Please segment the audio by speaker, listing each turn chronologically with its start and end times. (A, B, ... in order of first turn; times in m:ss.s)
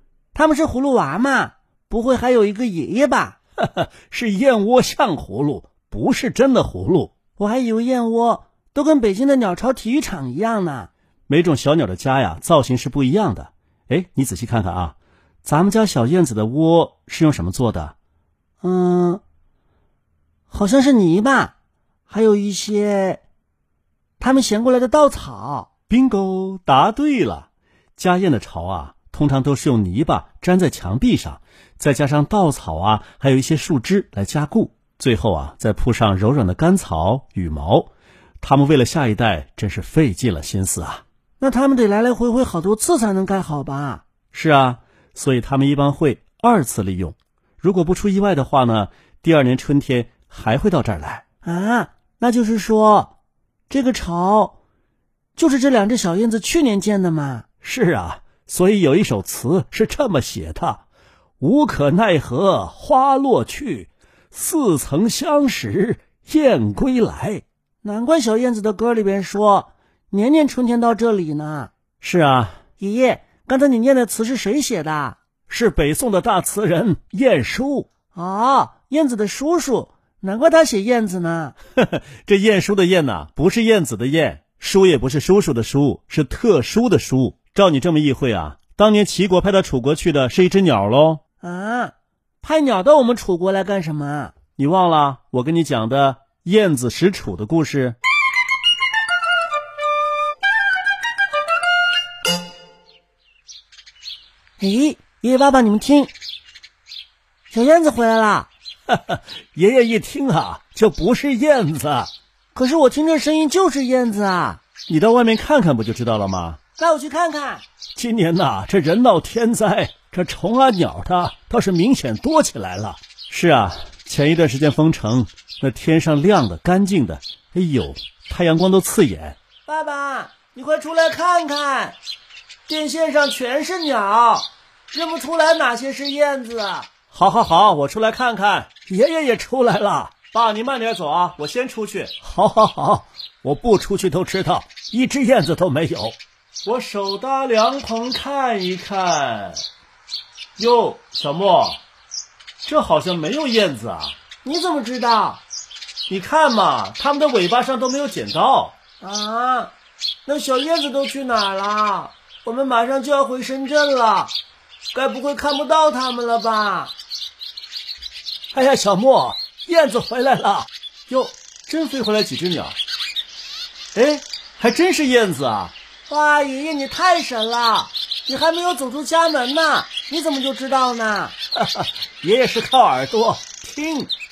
0:00.3-0:03.4 A
0:03.6-0:07.1 B
0:07.4-0:10.9 A
0:11.3-0:18.0 B
0:18.6-0:19.2 A
0:20.5-0:21.5 A
0:22.1-0:23.2 A
0:24.2-0:25.7 A
0:25.9-0:37.9 B
0:38.4-0:41.0 B
0:41.4-0:44.0 A
0:44.3-0:51.2 B
0:51.4-0:53.1 A
0:53.7-0:54.6 A
0:55.4-0:57.4 A
0:57.6-1:00.8 B
1:01.4-1:07.4 B
1:07.8-1:11.7 A
1:12.0-1:12.6 B
1:12.8-1:15.2 A
1:15.5-1:17.9 B
1:18.1-1:21.6 A
1:21.8-1:31.2 B
1:31.4-1:34.3 A
1:34.6-1:38.0 B
1:44.6-1:46.1 A
1:47.5-1:48.5 A
1:48.9-1:52.1 B
1:52.5-1:54.6 A
1:54.9-1:56.6 B
1:56.8-1:57.6 A
1:58.0-2:09.4 B
2:09.7-2:12.0 A
2:12.7-2:16.9 A
2:17.1-2:29.6 B
2:30.6-2:31.8 B
2:32.6-2:34.2 B
2:34.4-2:35.4 A
2:36.1-2:38.8 B
2:39.0-2:39.7 A
2:40.3-2:44.3 A
2:44.9-2:46.9 A
2:48.5-2:52.8 B
2:54.0-2:55.7 B
2:56.1-3:01.4 A
3:01.6-3:04.1 B